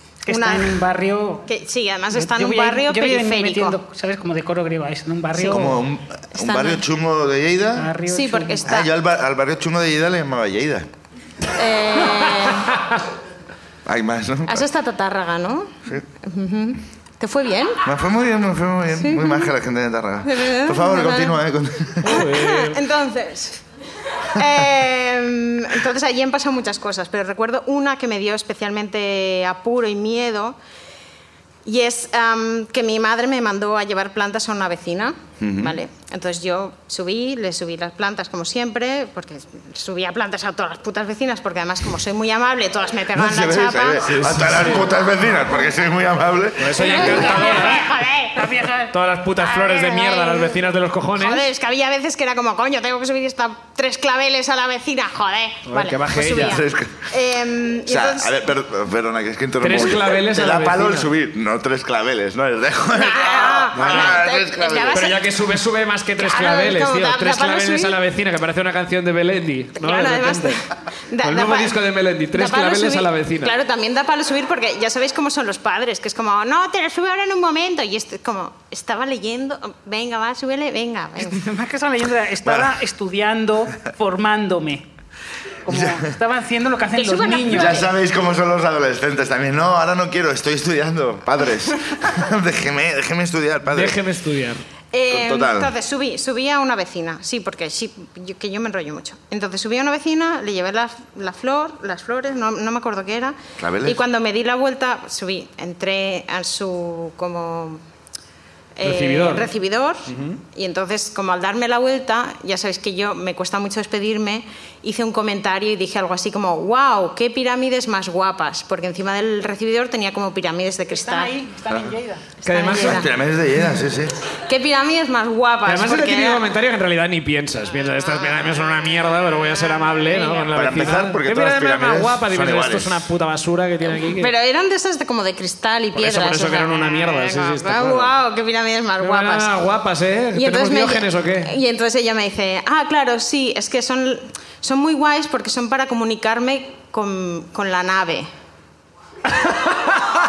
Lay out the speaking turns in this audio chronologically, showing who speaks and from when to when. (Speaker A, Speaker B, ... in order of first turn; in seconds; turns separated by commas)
Speaker A: 0.2-1.5, Speaker B: 0.3-0.8, Speaker B: 1.4-3.8, Speaker A: 2.1-5.8, Speaker C: 5.3-7.9, Speaker B: 6.3-6.8, Speaker A: 7.8-8.7, Speaker B: 8.0-8.9, Speaker C: 8.7-10.9, Speaker B: 11.5-12.8, Speaker C: 13.8-14.7, Speaker B: 14.4-17.8, Speaker C: 17.8-22.2, Speaker B: 18.9-19.5, Speaker B: 20.2-21.4, Speaker D: 22.0-22.8, Speaker B: 22.1-23.6, Speaker B: 24.3-30.6, Speaker B: 31.6-44.1, Speaker C: 35.4-35.8, Speaker C: 43.1-47.0, Speaker D: 44.1-44.8, Speaker D: 46.6-47.9, Speaker B: 46.7-48.4, Speaker A: 47.3-47.7, Speaker A: 48.3-48.9, Speaker D: 48.9-51.5, Speaker B: 49.4-50.6, Speaker B: 51.2-58.3, Speaker D: 55.6-56.6, Speaker C: 56.3-57.1, Speaker C: 57.9-65.0, Speaker D: 59.6-61.1, Speaker B: 62.9-65.3, Speaker D: 63.7-64.2, Speaker D: 64.9-70.6, Speaker B: 66.2-68.0, Speaker B: 69.8-71.8, Speaker D: 71.2-73.6, Speaker B: 72.3-81.4, Speaker A: 81.2-84.8, Speaker C: 82.4-82.8, Speaker A: 85.6-87.8, Speaker C: 85.7-86.1, Speaker B: 86.9-87.9, Speaker C: 87.5-94.0, Speaker D: 93.7-94.6, Speaker B: 94.9-107.8, Speaker C: 95.1-95.7, Speaker C: 103.6-104.0, Speaker B: 108.8-121.3, Speaker D: 108.8-109.5, Speaker D: 110.1-110.4, Speaker A: 120.9-123.0, Speaker B: 122.4-123.1, Speaker D: 122.5-123.0, Speaker C: 122.9-124.1, Speaker B: 124.5-126.4, Speaker D: 125.7-134.3, Speaker B: 128.0-128.5, Speaker B: 130.1-130.4, Speaker C: 130.5-133.0, Speaker B: 133.9-139.6, Speaker D: 135.9-138.2, Speaker D: 139.0-141.5, Speaker B: 140.3-148.3